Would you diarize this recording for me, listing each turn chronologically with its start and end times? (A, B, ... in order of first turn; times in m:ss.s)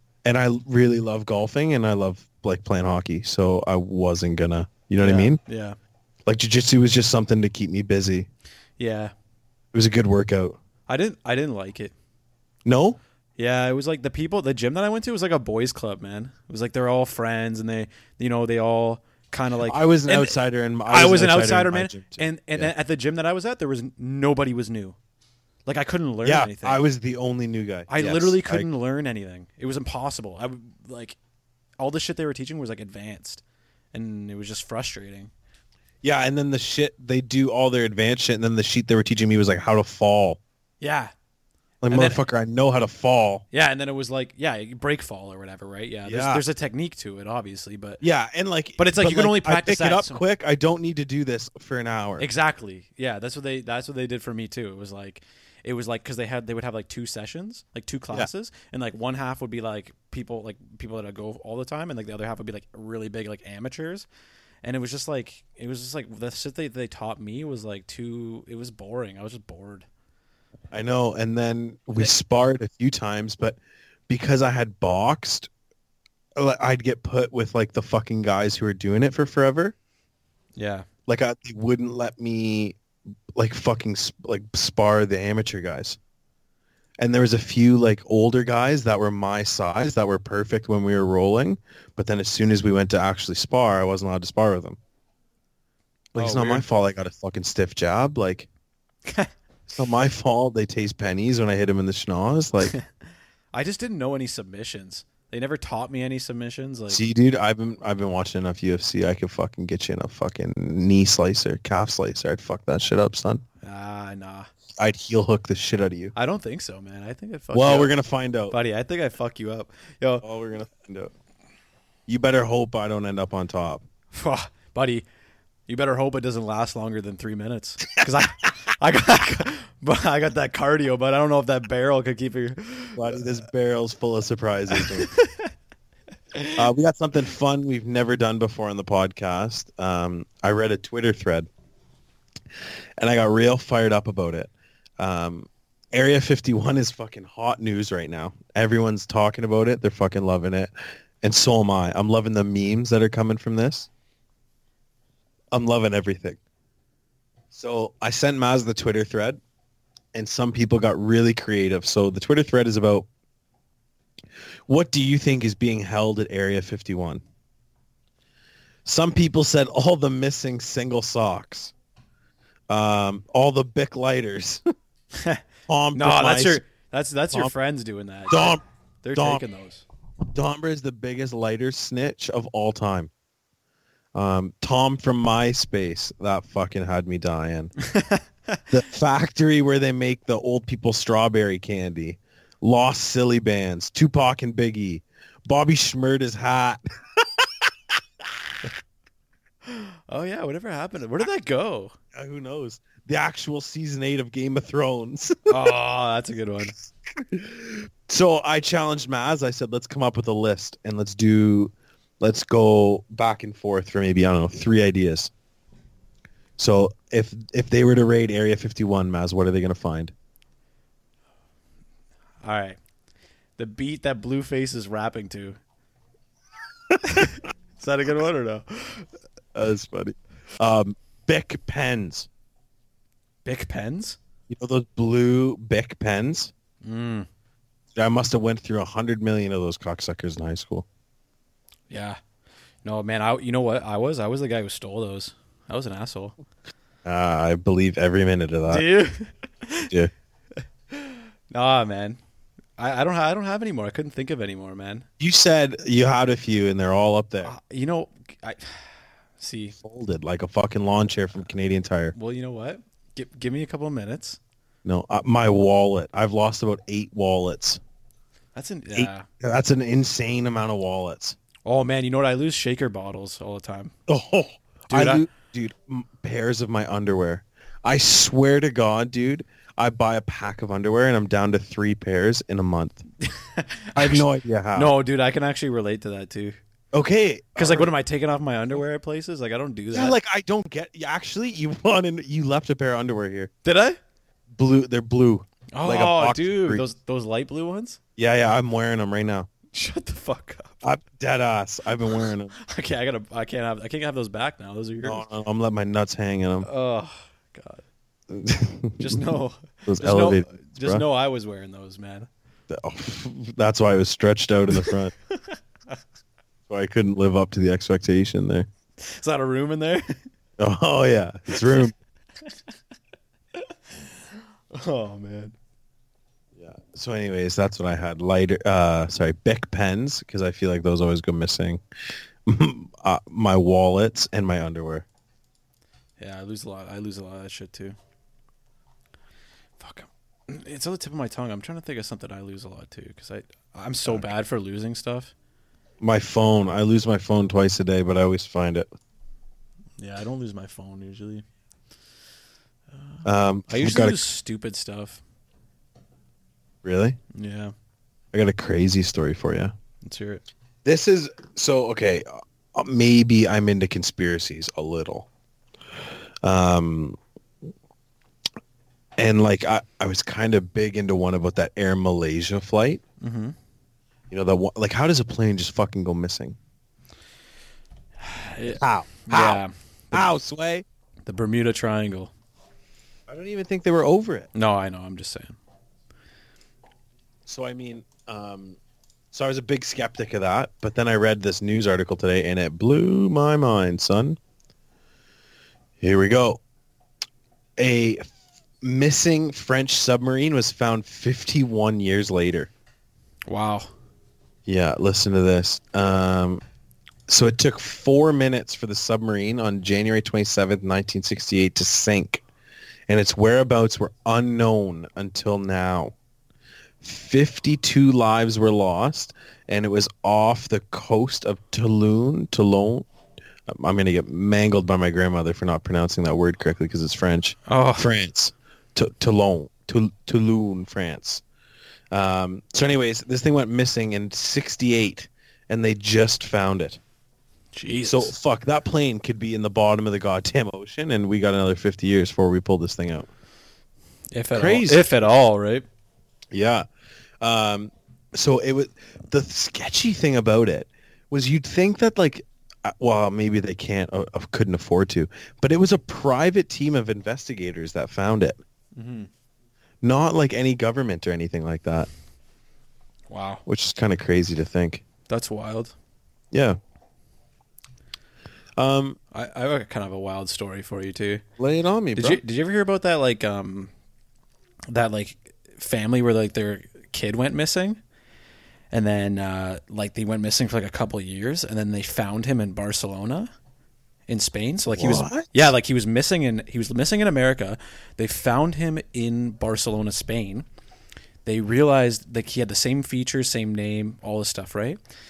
0:00.2-0:05.4 A
0:05.0-0:05.8 B
0:06.3-0:08.3 A
0:08.8-0:09.1 B
0:09.7-0:10.6 A
0:10.9-0:11.9 B
0:12.6-0:13.0 A
0:13.4-0:25.0 B
0:19.6-0:22.7 A
0:25.6-0:26.8 B
0:26.2-0:28.7 A
0:27.9-0:31.2 B
0:31.8-0:33.4 B
0:33.9-0:35.3 B
0:36.0-0:40.4 A
0:40.8-0:41.1 B
0:41.8-0:43.4 A
0:41.9-0:42.2 B
0:43.5-0:48.0 B
0:46.0-0:46.4 A
0:48.0-0:52.3 A
0:48.8-0:50.2 B
0:52.2-1:04.0 B
1:04.6-1:09.8 B
1:10.7-1:13.6 A
1:14.1-1:15.5 A
1:16.4-1:19.7 A
1:20.6-1:20.8 B
1:21.1-1:22.8 A
1:23.4-1:26.0 A
1:27.0-1:34.8 A
1:36.1-1:38.5 A
1:36.2-1:36.6 B
1:39.7-1:42.7 A
1:43.5-1:47.0 B
1:46.9-1:53.4 A
1:53.6-1:54.5 B
1:54.8-1:56.1 A
1:56.1-1:57.9 B
1:57.5-1:58.5 A
1:58.5-2:00.2 B
2:00.2-2:01.1 A
2:02.1-2:03.8 A
2:04.1-2:05.0 B
2:05.7-2:13.2 B
2:13.0-2:15.1 A
2:14.7-2:15.5 B
2:16.6-2:21.5 A
2:23.0-2:30.7 A
2:31.2-2:33.9 A
2:35.5-2:36.4 A
2:37.5-2:39.4 A
2:40.1-2:43.1 A
2:44.7-2:47.2 A
2:48.8-2:51.7 A
2:52.7-2:54.6 A
2:55.1-2:55.4 B
2:55.7-2:56.6 A
2:55.9-2:59.8 B
2:58.3-2:58.6 A
2:59.1-2:59.4 A
3:00.3-3:03.1 A
3:04.1-3:07.7 A
3:07.8-3:08.6 B
3:08.7-3:17.7 A
3:19.6-3:22.0 B
3:22.1-3:25.6 A
3:25.5-3:26.7 B
3:27.1-3:35.3 A
3:36.6-3:40.1 A
3:42.4-3:42.8 B
3:43.6-3:45.6 B
3:47.0-3:49.1 B
3:49.5-3:52.3 A
3:53.4-3:54.2 B
3:54.5-3:56.5 A
3:56.8-3:57.3 B
3:57.9-4:00.8 A
4:01.9-4:02.2 B
4:02.8-4:06.4 B
4:07.0-4:08.8 A
4:08.7-4:09.9 B
4:10.9-4:12.2 B
4:12.8-4:15.1 B
4:15.2-4:17.5 A
4:17.4-4:19.8 B
4:19.8-4:22.1 A
4:22.1-4:24.4 B
4:24.8-4:27.8 A
4:28.5-4:29.3 B
4:28.9-4:31.4 A
4:31.6-4:33.9 B
4:34.1-4:43.0 A
4:34.9-4:35.2 B
4:43.2-4:46.6 B
4:44.0-4:44.9 A
4:46.9-4:47.9 A
4:47.6-4:50.2 B
4:49.9-4:53.5 A
4:53.6-4:54.0 B
4:54.5-4:56.8 A
4:55.7-4:58.0 B
4:58.2-4:59.5 A
4:59.7-5:00.8 B
5:00.8-5:02.5 A
5:02.1-5:05.2 B
5:05.0-5:06.7 A
5:06.6-5:07.8 B
5:08.3-5:09.2 A
5:09.0-5:12.3 B
5:09.8-5:11.0 A
5:12.7-5:15.1 A
5:14.8-5:15.6 B
5:16.7-5:18.7 A
5:19.0-5:20.2 B
5:20.6-5:21.9 A
5:23.5-5:24.2 B
5:24.7-5:25.5 B
5:26.6-5:31.8 A
5:32.4-5:35.0 A
5:36.2-5:38.0 B
5:39.8-5:45.3 B
5:46.0-5:48.9 A
5:50.0-5:51.4 B
5:52.9-5:55.2 B
5:53.2-5:54.2 A
5:56.8-5:57.2 A
5:57.3-5:57.7 B
5:58.3-5:59.7 A
6:00.0-6:00.4 B
6:00.8-6:05.3 A
6:06.4-6:07.2 A
6:09.2-6:13.0 A
6:13.2-6:13.5 B
6:14.3-6:16.6 A
6:18.2-6:20.3 B
6:18.7-6:20.8 A
6:21.2-6:22.3 B
6:23.3-6:24.5 A
6:24.5-6:25.6 B
6:27.4-6:28.8 A
6:29.3-6:34.4 A
6:36.0-6:36.6 A
6:37.8-6:38.2 A
6:38.8-6:42.7 A
6:43.5-6:43.9 B
6:44.7-6:46.6 A
6:47.3-6:52.4 A
6:53.1-6:56.1 A
6:57.0-7:03.1 A
7:03.7-7:11.4 A
7:07.7-7:08.1 B
7:12.1-7:17.0 A
7:17.7-7:18.3 B
7:18.0-7:23.3 A
7:24.3-7:25.8 B
7:24.5-7:25.1 A
7:26.5-7:26.8 A
7:27.4-7:38.6 A
7:39.0-7:39.3 B
7:40.0-7:42.1 A
7:43.3-7:43.6 B
7:43.6-7:45.0 A
7:45.3-7:45.9 B
7:46.5-7:46.8 A
7:48.8-7:49.2 A
7:49.3-7:51.4 B
7:51.6-7:52.4 A
7:52.2-7:53.9 B
7:54.9-7:58.0 B
7:58.9-8:03.5 B
8:04.3-8:10.6 B
8:04.9-8:05.7 A
8:11.4-8:15.0 B